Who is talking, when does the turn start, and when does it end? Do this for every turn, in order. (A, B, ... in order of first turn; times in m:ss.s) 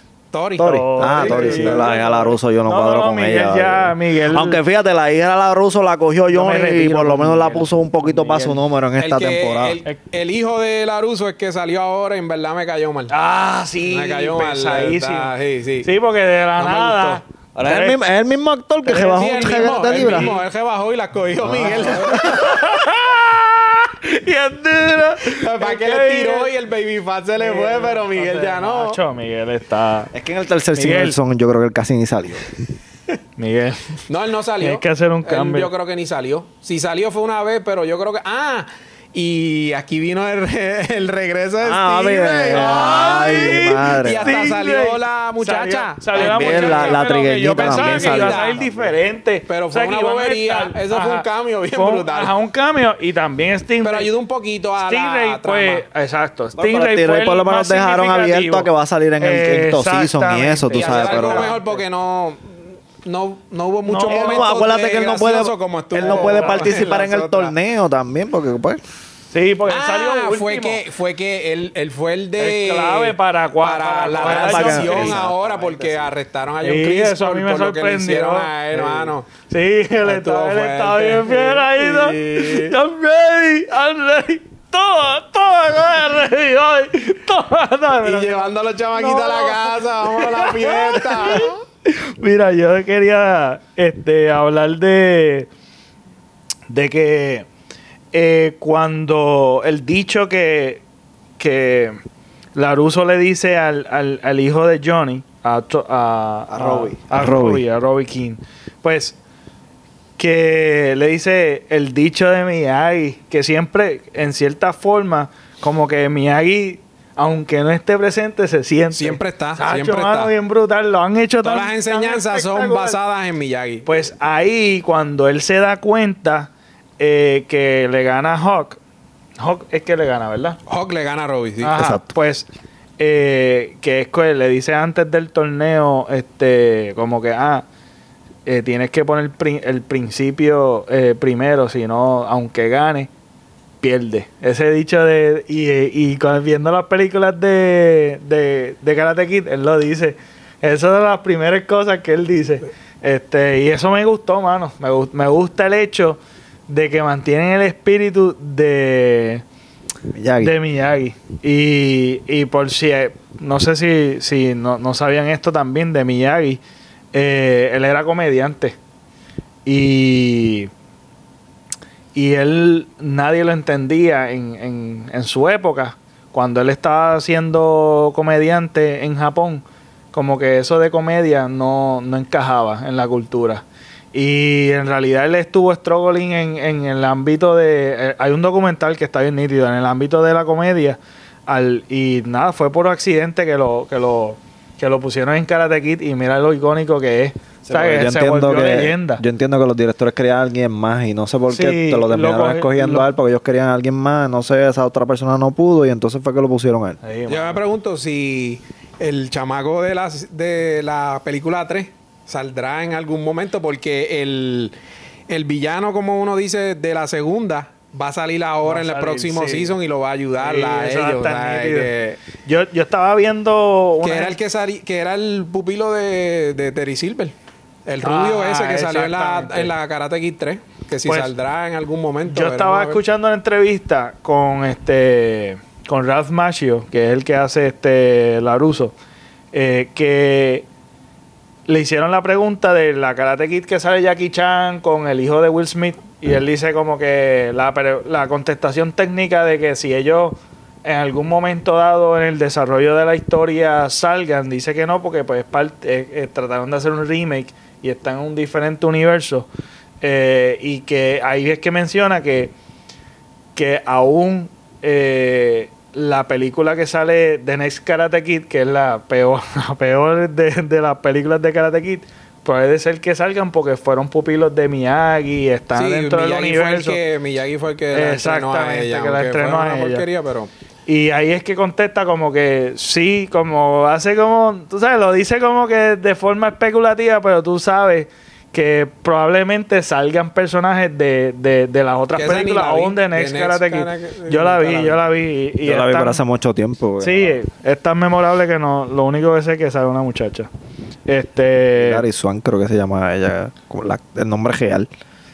0:00.3-0:01.9 A
0:00.6-0:09.8 B
0:00.6-0:04.6 C
0:06.3-0:08.6 C
0:09.0-0:13.1 A
0:13.1-0:15.3 C
0:13.9-0:15.9 A
0:15.8-0:18.0 C
0:16.6-0:17.2 A
0:17.6-0:20.4 B
0:18.9-0:20.4 C
0:19.0-0:22.4 A
0:21.4-0:22.2 B
0:21.6-0:26.5 C
0:25.2-0:29.0 A
0:27.4-0:30.1 C
0:30.1-0:32.5 B
0:30.8-0:31.2 C
0:33.4-0:34.0 C
0:34.1-0:48.7 A
0:34.6-0:35.7 C
0:41.6-0:44.4 B
0:42.5-0:54.1 C
0:46.2-0:48.9 B
0:49.5-0:52.3 A
0:53.8-0:55.8 A
0:54.8-0:58.7 C
0:56.6-1:01.6 B
0:59.2-1:01.8 C
1:00.7-1:07.6 A
1:03.9-1:04.5 C
1:04.1-1:08.8 B
1:06.0-1:06.8 C
1:09.3-1:10.8 C
1:09.7-1:19.3 A
1:12.4-1:15.2 C
1:14.2-1:16.2 B
1:16.6-1:35.5 C
1:20.0-1:22.8 A
1:28.0-1:31.6 A
1:36.7-1:37.5 C
1:38.1-1:40.8 C
1:41.4-1:42.0 C
1:42.6-1:49.2 C
1:46.5-1:47.6 B
1:50.2-2:03.0 C
1:58.9-2:00.3 A
2:01.4-2:04.0 A
2:03.9-2:08.8 C
2:09.4-2:10.6 C
2:10.7-2:11.8 A
2:11.6-2:12.5 C
2:11.8-2:12.1 B
2:13.0-2:17.7 C
2:18.5-2:23.1 C
2:23.8-2:39.4 C
2:40.1-2:40.5 B
2:40.4-2:46.6 C
2:47.1-2:48.8 C
2:49.7-2:50.7 C
2:52.2-3:19.2 C
3:17.7-3:27.0 B
3:21.5-3:23.1 C
3:27.0-3:27.6 C
3:27.3-3:34.7 A
3:35.3-3:42.2 A
3:38.6-3:39.8 C
3:40.4-3:44.4 C
3:44.0-3:47.4 A
3:47.9-3:53.0 A
3:48.0-3:49.7 C
3:51.1-3:51.3 C
3:52.2-3:58.9 C
3:59.5-4:00.7 C
4:01.7-4:19.5 C
4:20.0-4:22.5 C
4:23.6-4:37.0 C
4:35.7-4:40.5 A
4:37.9-4:40.0 C
4:40.9-4:56.2 C
4:52.2-4:55.0 A
4:55.6-4:57.4 B
4:57.0-5:00.5 C
5:01.1-5:02.0 C
5:01.8-5:04.9 B